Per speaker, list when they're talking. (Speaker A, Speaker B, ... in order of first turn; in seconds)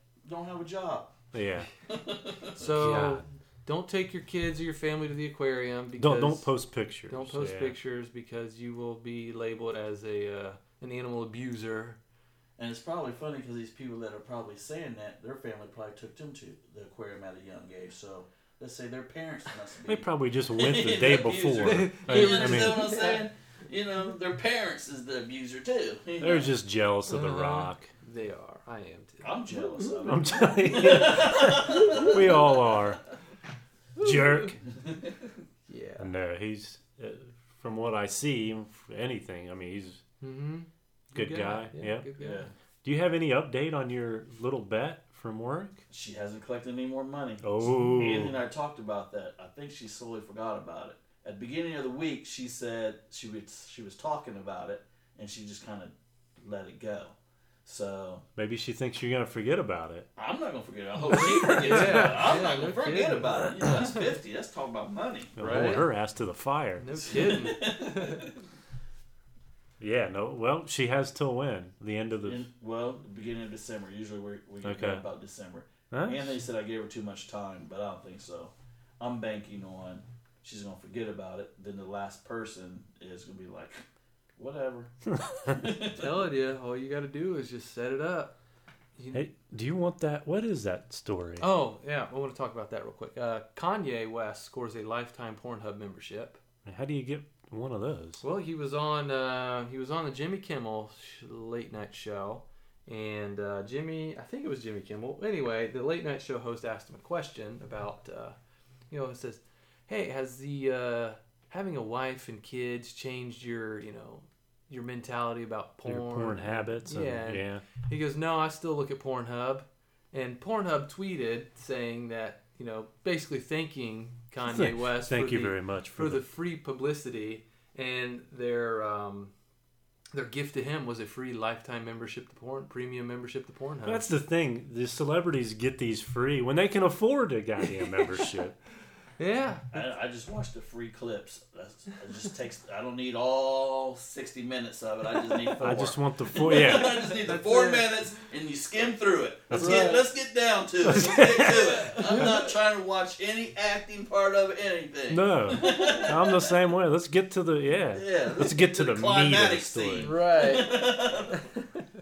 Speaker A: 0.2-1.2, 1.8-2.7, 12.6-26.5, 29.2-32.6, 42.2-42.5, 45.9-58.2, 60.2-65.8, 67.1-68.4, 72.2-83.8, 84.4-84.9, 85.5-86.1, 139.7-156.6, 157.8-161.5
Speaker B: 1.3-1.7, 2.8-3.2, 6.0-7.8, 19.9-22.9, 26.2-27.9, 30.0-33.0, 34.0-34.6, 36.0-40.0, 41.1-42.1, 42.8-45.8, 47.4-48.4, 58.4-60.1, 61.5-62.1, 65.4-67.2, 69.8-72.5, 74.6-75.0, 75.9-76.4, 85.1-85.6, 89.1-91.5, 96.7-98.2, 115.8-117.7, 124.5-126.2, 133.8-138.6, 145.6-147.2, 149.5-149.9, 150.8-152.3, 155.1-160.1
Speaker C: 2.5-6.5, 7.1-12.0, 21.5-23.3, 27.1-29.8, 31.6-32.2, 34.0-34.5, 35.7-36.1, 40.2-42.5, 61.1-64.0, 65.4-65.9, 66.8-68.3, 86.0-88.4, 89.0-89.3, 91.4-96.4, 98.2-108.4, 108.9-129.3, 130.1-134.1, 137.6-138.3, 139.2-139.7, 146.5-147.9, 149.6-150.1, 150.9-152.5, 160.0-161.9